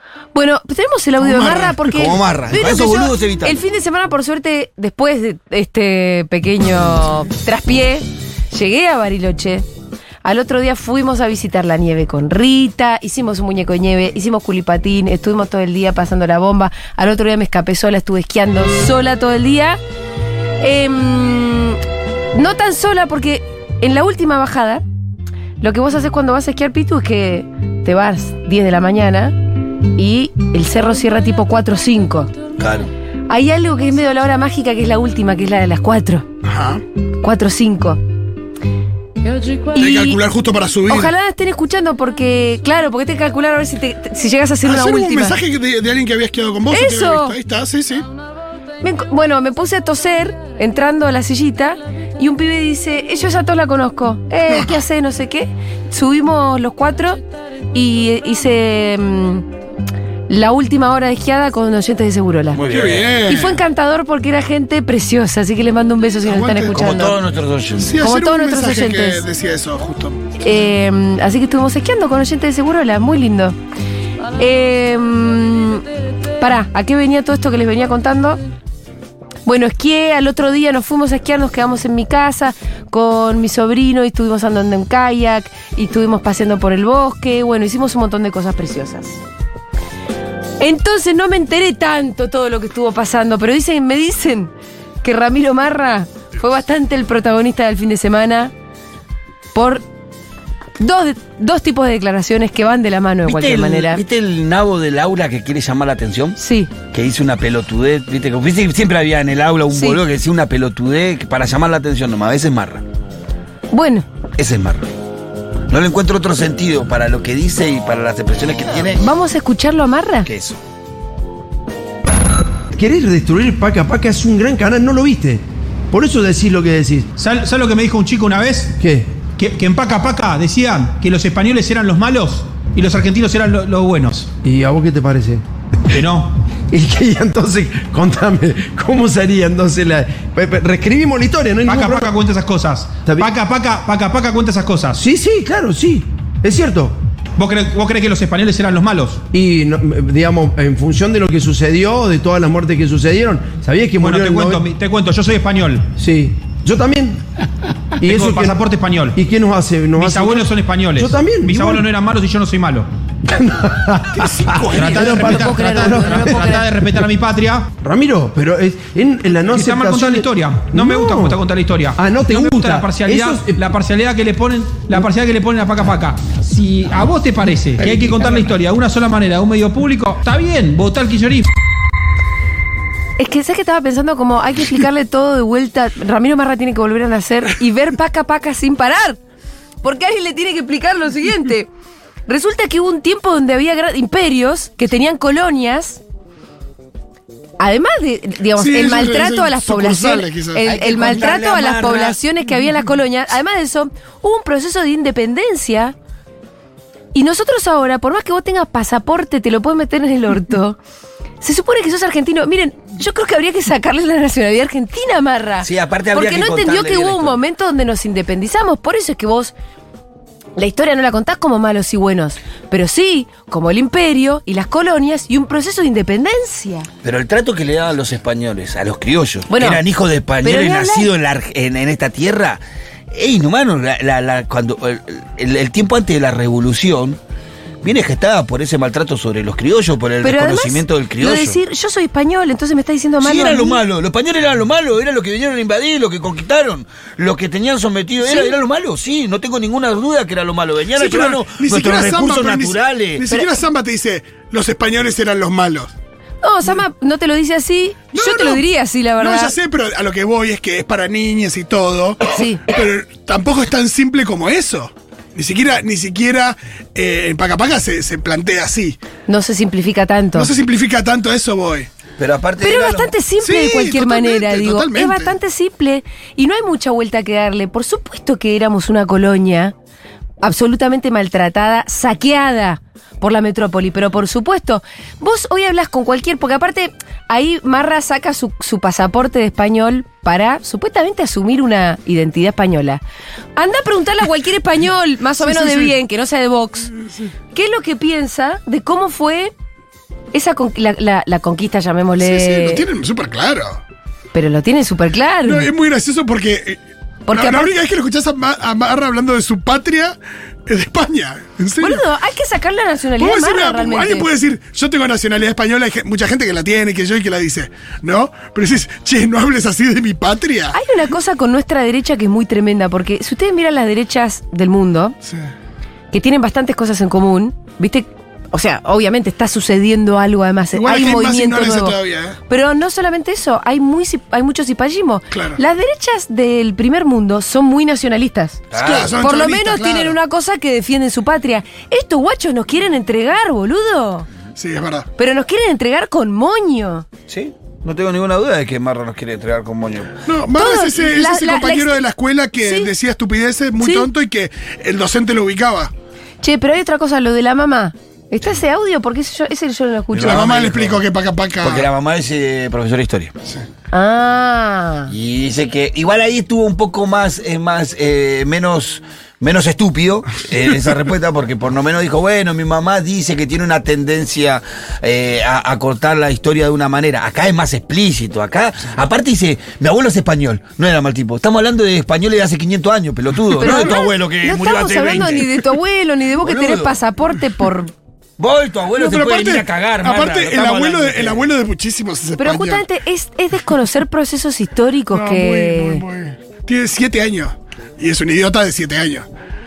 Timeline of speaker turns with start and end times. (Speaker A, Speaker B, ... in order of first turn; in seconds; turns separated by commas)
Speaker A: 0.3-9.6, Speaker B: 1.2-1.8, Speaker C: 1.9-3.6, Speaker A: 10.2-19.8, Speaker A: 20.6-21.8, Speaker A: 22.3-24.8, Speaker A: 25.6-29.4, Speaker A: 29.9-32.3, Speaker C: 32.6-32.9, Speaker A: 33.3-36.3, Speaker B: 36.4-36.8, Speaker A: 37.2-38.0, Speaker A: 39.7-40.2, Speaker B: 39.7-41.1, Speaker A: 40.9-45.4, Speaker B: 44.6-48.0, Speaker A: 46.7-47.3, Speaker A: 48.8-57.2, Speaker B: 54.5-54.8, Speaker A: 57.7-59.5, Speaker A: 60.3-62.6, Speaker C: 62.5-63.2, Speaker B: 62.7-63.6, Speaker A: 63.2-67.2, Speaker B: 66.2-67.0, Speaker C: 66.7-67.9, Speaker B: 67.8-70.2, Speaker A: 68.0-69.2, Speaker A: 70.4-73.5, Speaker A: 74.4-75.8, Speaker A: 76.4-78.4, Speaker A: 79.5-89.2, Speaker A: 90.6-94.5, Speaker A: 95.0-98.5, Speaker A: 99.5-99.8, Speaker A: 100.8-104.0, Speaker C: 103.2-106.4, Speaker A: 106.4-106.7, Speaker C: 106.9-112.8, Speaker A: 109.7-110.0, Speaker A: 113.7-114.0, Speaker C: 114.4-114.8, Speaker C: 115.7-119.0, Speaker A: 118.9-120.3, Speaker C: 120.2-120.6, Speaker D: 122.7-127.1, Speaker E: 127.2-128.7, Speaker D: 128.8-129.1, Speaker E: 129.4-134.3, Speaker D: 134.4-135.4, Speaker E: 135.9-136.3, Speaker D: 136.7-142.1, Speaker E: 141.7-145.0, Speaker D: 143.0-143.3, Speaker D: 145.0-146.9, Speaker E: 147.4-149.2, Speaker D: 149.3-154.7, Speaker E: 154.0-155.8, Speaker D: 156.0-157.2, Speaker D: 158.0-158.6, Speaker E: 158.0-159.2, Speaker D: 159.2-161.9, Speaker E: 160.0-162.9, Speaker D: 163.2-167.0, Speaker B: 164.2-165.3, Speaker E: 164.7-167.7, Speaker A: 165.2-166.6, Speaker D: 167.8-171.4, Speaker E: 169.5-181.5, Speaker D: 171.9-173.7, Speaker D: 177.8-178.3, Speaker A: 183.2-189.2, Speaker A: 189.8-191.7, Speaker A: 192.3-196.0, Speaker A: 197.6-205.9, Speaker B: 198.5-200.7, Speaker C: 200.7-202.2, Speaker A: 207.1-210.8, Speaker A: 211.4-219.5, Speaker C: 215.6-217.4, Speaker A: 220.6-226.9, Speaker C: 227.0-237.2, Speaker A: 229.5-229.8, Speaker A: 230.4-231.1, Speaker C: 237.8-241.6, Speaker A: 240.2-243.8, Speaker C: 243.2-253.2, Speaker A: 248.2-248.5, Speaker B: 250.9-255.9, Speaker A: 256.4-259.5, Speaker B: 258.1-258.6, Speaker B: 259.2-269.0, Speaker A: 262.3-262.6, Speaker A: 269.3-270.5, Speaker B: 270.4-271.9, Speaker C: 272.2-273.1, Speaker A: 272.6-279.7, Speaker B: 273.4-275.3, Speaker A: 280.4-293.0, Speaker A: 293.6-296.9, Speaker B: 295.4-295.9, Speaker B: 297.0-297.3, Speaker A: 297.5-299.5, Speaker A: 300.3-302.8, Speaker B: 302.2-303.8, Speaker A: 304.3-305.7, Speaker B: 305.4-310.1, Speaker A: 307.3-307.7, Speaker B: 310.7-312.0, Speaker A: 311.8-314.3, Speaker B: 313.2-320.8, Speaker A: 320.7-325.1, Speaker A: 326.1-332.0, Speaker B: 330.7-332.4, Speaker A: 332.5-344.3, Speaker B: 335.3-335.6, Speaker C: 338.7-339.1, Speaker B: 338.8-340.2, Speaker B: 344.6-345.1, Speaker A: 345.2-347.1, Speaker C: 347.3-350.1, Speaker B: 350.2-355.9, Speaker A: 350.5-352.0, Speaker A: 352.6-352.9, Speaker A: 353.8-354.1, Speaker A: 356.4-360.4, Speaker C: 360.1-361.0, Speaker B: 360.2-361.9, Speaker C: 361.6-363.3, Speaker A: 363.9-365.1, Speaker C: 365.1-385.6, Speaker A: 383.6-387.9, Speaker C: 386.4-386.9, Speaker C: 388.4-391.5, Speaker B: 388.9-392.8, Speaker A: 392.4-396.0, Speaker B: 395.1-399.3